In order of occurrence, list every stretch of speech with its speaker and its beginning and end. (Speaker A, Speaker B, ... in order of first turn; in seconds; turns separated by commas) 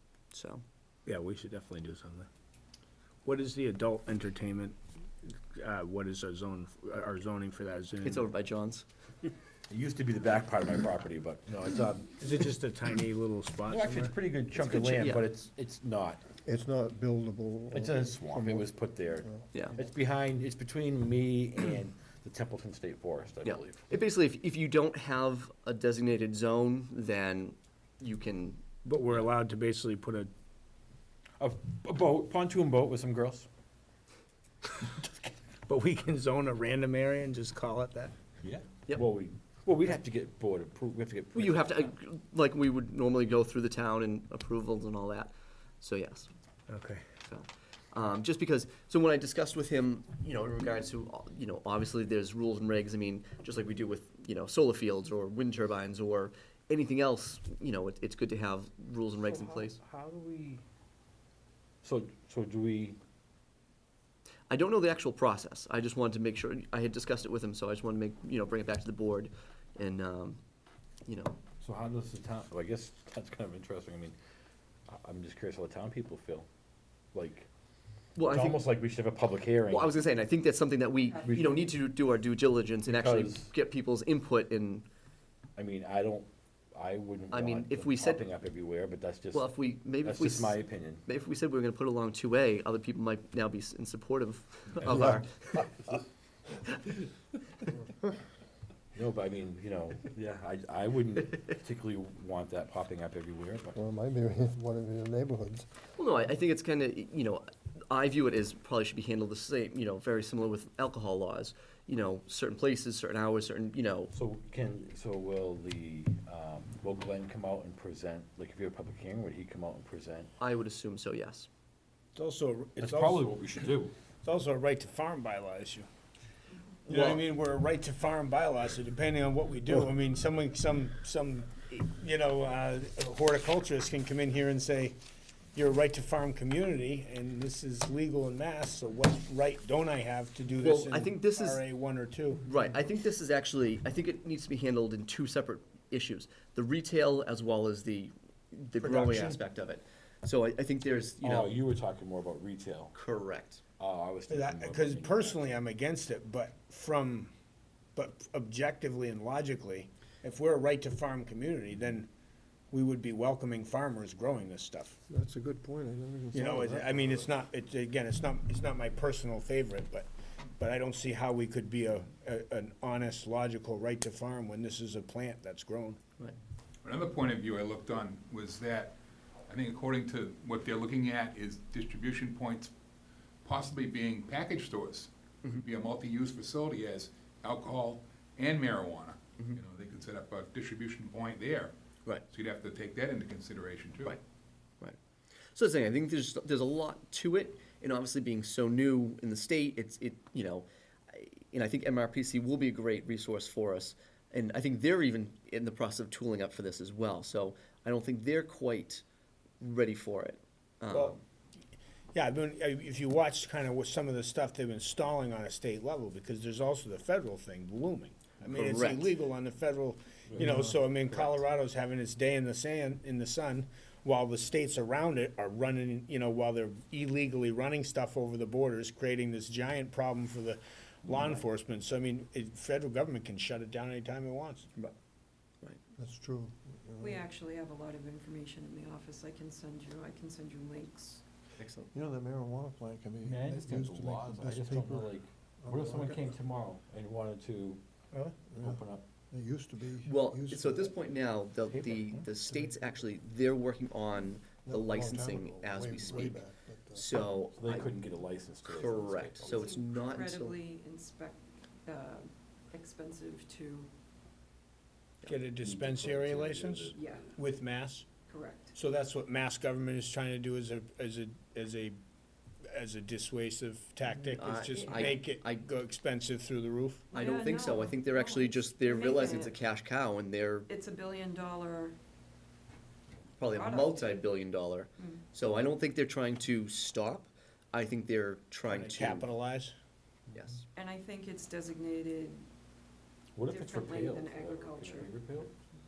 Speaker A: 0.3-0.6, Speaker B: 1.1-2.3, Speaker B: 3.2-8.3, Speaker A: 8.0-8.8, Speaker C: 9.7-12.3, Speaker B: 12.2-14.1, Speaker C: 13.7-16.2, Speaker A: 14.6-15.2, Speaker D: 16.4-19.4, Speaker C: 17.7-23.8, Speaker A: 23.4-28.6, Speaker B: 28.8-30.3, Speaker C: 31.4-33.5, Speaker B: 35.7-38.1, Speaker C: 38.4-41.9, Speaker A: 41.3-46.3, Speaker B: 46.7-47.0, Speaker A: 47.2-59.8, Speaker C: 59.2-60.6, Speaker C: 61.8-63.0, Speaker A: 64.5-70.4, Speaker A: 71.0-71.4, Speaker C: 71.6-74.2, Speaker C: 74.9-76.5, Speaker C: 77.1-77.5, Speaker A: 78.2-78.6, Speaker C: 78.2-79.9, Speaker A: 79.7-84.8, Speaker E: 81.1-81.4, Speaker C: 81.2-81.7, Speaker C: 82.9-83.5, Speaker C: 85.6-91.0, Speaker A: 87.3-88.2, Speaker A: 89.3-95.9, Speaker C: 98.9-103.8, Speaker D: 103.7-105.7, Speaker A: 105.9-114.1, Speaker C: 114.1-120.3, Speaker A: 120.4-121.5, Speaker B: 122.1-123.3, Speaker C: 122.8-123.9, Speaker B: 124.2-125.9, Speaker B: 126.9-135.0, Speaker A: 126.9-127.2, Speaker B: 135.5-142.4, Speaker A: 140.6-141.6, Speaker A: 142.4-151.5, Speaker B: 148.8-149.4, Speaker C: 151.2-152.9, Speaker A: 152.9-153.6, Speaker C: 153.8-155.5, Speaker B: 154.3-157.3, Speaker B: 157.9-162.1, Speaker B: 162.7-165.0, Speaker D: 165.1-167.3, Speaker B: 166.3-170.1, Speaker B: 170.6-176.0, Speaker F: 176.8-178.9, Speaker F: 179.5-182.7, Speaker F: 183.4-191.7, Speaker F: 192.3-194.2, Speaker A: 195.5-209.0, Speaker A: 209.6-211.2, Speaker B: 210.9-211.2, Speaker B: 212.1-234.7, Speaker A: 218.5-219.1, Speaker C: 220.3-220.7, Speaker D: 235.9-237.2, Speaker E: 237.0-241.2, Speaker A: 241.6-241.9, Speaker D: 241.9-246.2, Speaker C: 243.2-247.8, Speaker D: 248.5-251.0, Speaker C: 248.6-249.0, Speaker A: 250.0-256.4, Speaker D: 251.8-252.9, Speaker D: 254.6-257.1, Speaker A: 256.9-257.9, Speaker C: 257.5-259.8, Speaker A: 258.6-260.6, Speaker E: 259.4-263.9, Speaker B: 265.3-268.1, Speaker C: 265.6-266.9, Speaker E: 266.9-267.3, Speaker E: 268.3-268.7, Speaker B: 268.7-272.0, Speaker B: 272.6-277.1, Speaker A: 274.3-275.6, Speaker E: 274.7-275.2, Speaker E: 277.1-279.5, Speaker A: 277.1-280.7, Speaker E: 280.7-282.0, Speaker A: 283.4-289.3, Speaker E: 283.5-284.2, Speaker E: 285.0-285.2, Speaker B: 288.6-289.7, Speaker A: 290.3-290.6, Speaker E: 290.7-292.5, Speaker C: 293.3-295.5, Speaker E: 293.5-295.1